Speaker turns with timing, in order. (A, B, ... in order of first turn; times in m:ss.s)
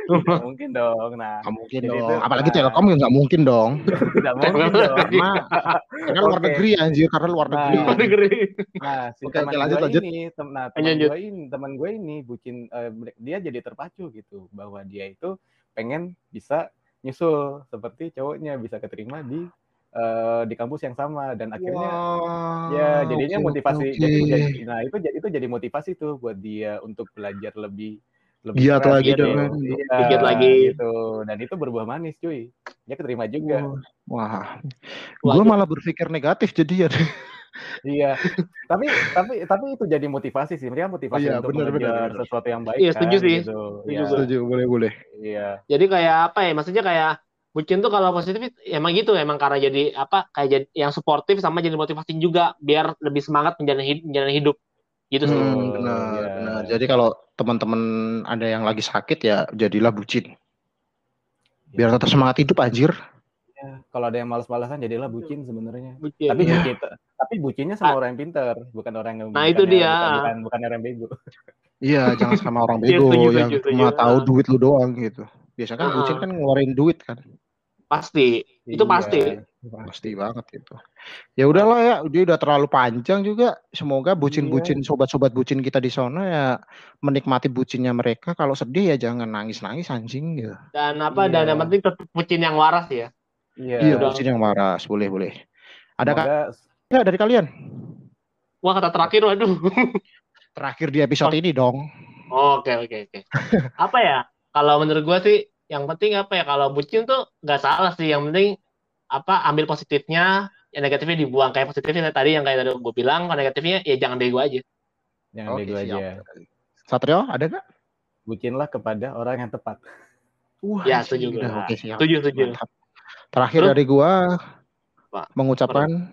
0:00.1-0:00.4 A
0:00.1-0:02.8 B
0:01.5-0:03.8 C
0:04.0-0:05.6 A
0:04.0-0:06.6 B
0:05.0-0:05.5 C
0:06.1-0:08.1 C
0:07.5-0:08.1 B
0:07.8-0:08.6 A
0:08.8-0:22.0 B
0:09.2-0:10.0 C
0:10.8-0:11.1 A
0:21.6-0:24.5 C
0:22.7-0:27.9 B
0:28.4-0:33.6 B
0:28.6-0:30.4 C
0:29.0-0:29.4 A
0:30.0-0:30.7 A
0:33.4-0:34.5 C
0:35.2-0:36.9 C
0:35.3-0:35.5 A
0:37.9-0:38.2 B
0:38.7-0:44.2 B
0:41.1-0:42.2 C
0:42.8-0:44.3 A
0:44.1-0:44.9 C
0:45.2-0:45.6 B
0:45.7-0:54.6 A
0:55.1-0:55.5 A
0:55.2-0:56.7 B
0:55.3-1:00.2 C
1:01.8-1:02.9 C
1:03.5-1:11.1 B
1:06.0-1:06.6 A
1:06.4-1:06.7 C
1:09.4-1:10.2 A
1:11.8-1:17.2 C
1:12.9-1:14.2 A
1:15.8-1:16.2 A
1:17.9-1:19.3 A
1:18.7-1:19.9 B
1:19.8-1:20.8 C
1:21.4-1:26.5 C
1:24.2-1:24.7 B
1:27.0-1:30.5 C
1:30.8-1:33.1 A
1:31.1-1:31.7 B
1:33.6-1:34.0 B
1:33.8-1:35.3 C
1:33.8-1:34.2 A
1:36.0-1:36.3 C
1:36.1-1:36.5 B
1:36.9-1:37.5 C
1:38.6-1:40.0 A
1:40.6-1:41.8 C
1:42.3-1:43.2 A
1:43.4-1:43.7 C
1:43.8-1:48.5 A
1:49.1-1:54.6 A
1:55.4-1:56.2 B
1:55.5-1:57.6 C
1:58.3-1:59.8 B
2:00.6-2:02.7 C
2:00.9-2:02.5 A
2:03.4-2:04.2 C
2:05.1-2:05.9 A
2:05.4-2:05.9 C